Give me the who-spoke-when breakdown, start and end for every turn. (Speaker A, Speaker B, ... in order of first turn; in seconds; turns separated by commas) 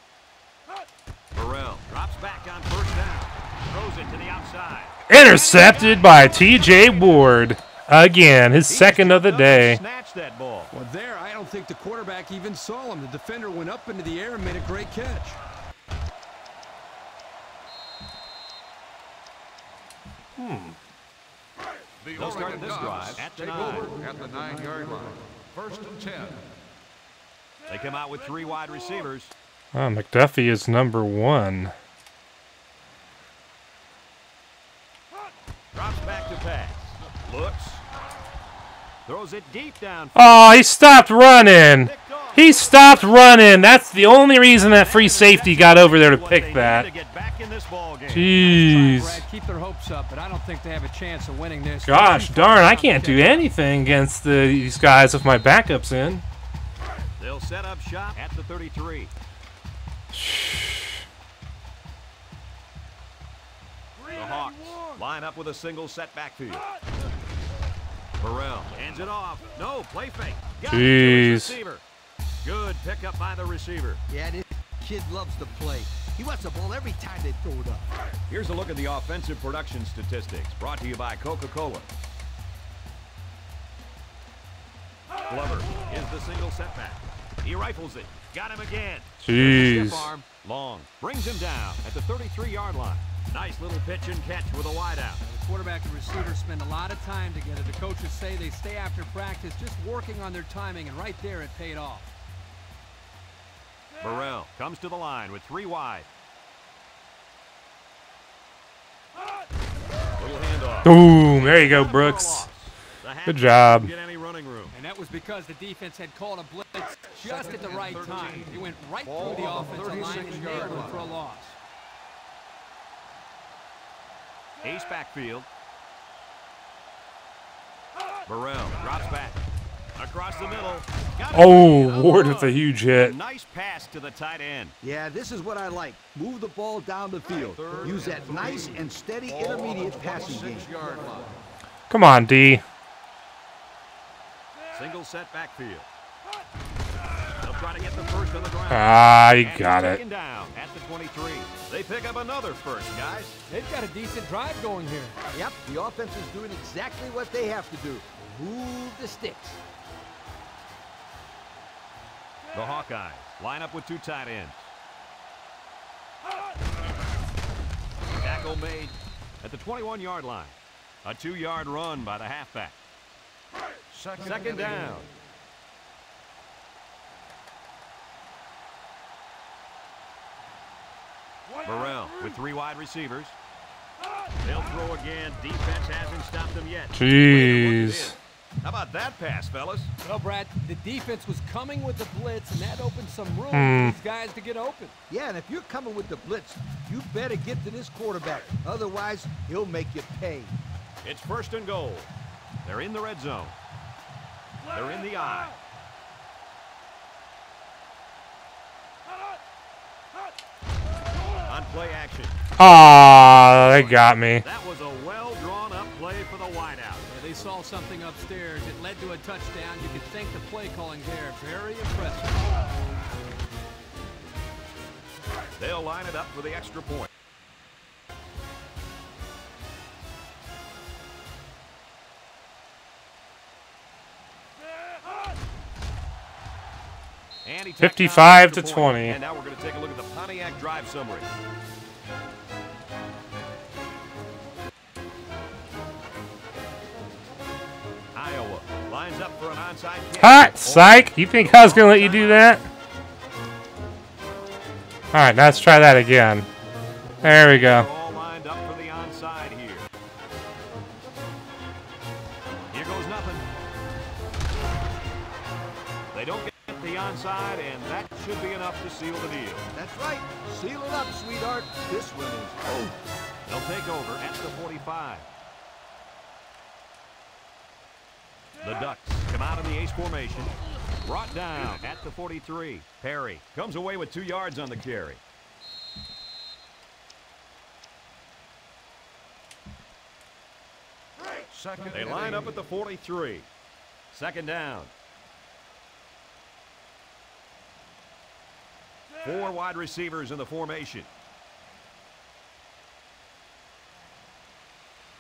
Speaker A: 1.3-7.3, Speaker B: 5.1-9.8, Speaker A: 8.7-10.7, Speaker C: 10.7-15.4, Speaker B: 20.4-20.8, Speaker D: 22.0-26.5, Speaker A: 22.1-23.9, Speaker A: 27.7-29.3, Speaker B: 29.8-31.7, Speaker A: 35.7-37.9, Speaker A: 39.1-40.6, Speaker B: 40.1-46.9, Speaker A: 41.8-43.4, Speaker A: 44.8-48.4, Speaker B: 48.1-49.2, Speaker C: 48.4-53.5, Speaker B: 51.9-56.2, Speaker A: 57.2-59.1, Speaker B: 60.1-61.0, Speaker A: 64.1-66.7, Speaker A: 68.2-71.8, Speaker B: 70.7-71.6, Speaker A: 72.4-74.0, Speaker E: 74.1-77.9, Speaker A: 78.3-81.9, Speaker A: 85.3-95.2, Speaker B: 89.2-90.1, Speaker C: 95.2-102.1, Speaker A: 104.0-106.1, Speaker A: 110.2-114.7, Speaker B: 110.8-112.5, Speaker B: 113.3-113.9, Speaker C: 114.7-121.6, Speaker A: 117.2-118.5, Speaker D: 119.0-121.0, Speaker A: 124.6-125.5, Speaker A: 128.3-129.4, Speaker A: 129.9-134.8, Speaker B: 131.3-133.2, Speaker E: 134.8-140.7, Speaker A: 137.5-138.6, Speaker D: 137.8-141.4, Speaker B: 141.9-142.6, Speaker A: 144.7-145.9, Speaker A: 147.4-153.4, Speaker B: 148.7-150.0, Speaker C: 153.5-155.2, Speaker E: 155.3-159.6, Speaker A: 162.5-164.7, Speaker A: 168.2-172.8, Speaker D: 173.9-175.0, Speaker A: 174.2-175.1, Speaker A: 181.6-183.3, Speaker A: 184.4-189.9, Speaker B: 186.9-188.2, Speaker C: 190.0-194.9, Speaker B: 193.5-194.0, Speaker E: 195.1-200.6, Speaker A: 201.0-202.1, Speaker A: 202.7-203.6, Speaker A: 204.7-205.6, Speaker A: 211.4-212.4, Speaker B: 212.6-214.4, Speaker A: 213.7-217.1, Speaker C: 217.1-222.5, Speaker A: 225.6-227.1, Speaker A: 237.4-241.3, Speaker B: 237.8-239.2, Speaker A: 248.1-252.6, Speaker B: 250.1-252.6, Speaker B: 255.1-256.5, Speaker B: 257.2-257.9, Speaker A: 257.3-259.9, Speaker A: 262.7-263.5, Speaker A: 266.1-269.7, Speaker E: 269.7-273.0, Speaker A: 273.4-275.3, Speaker A: 278.6-285.2, Speaker D: 291.5-292.6, Speaker A: 291.9-293.5, Speaker A: 294.1-294.9, Speaker A: 299.2-301.1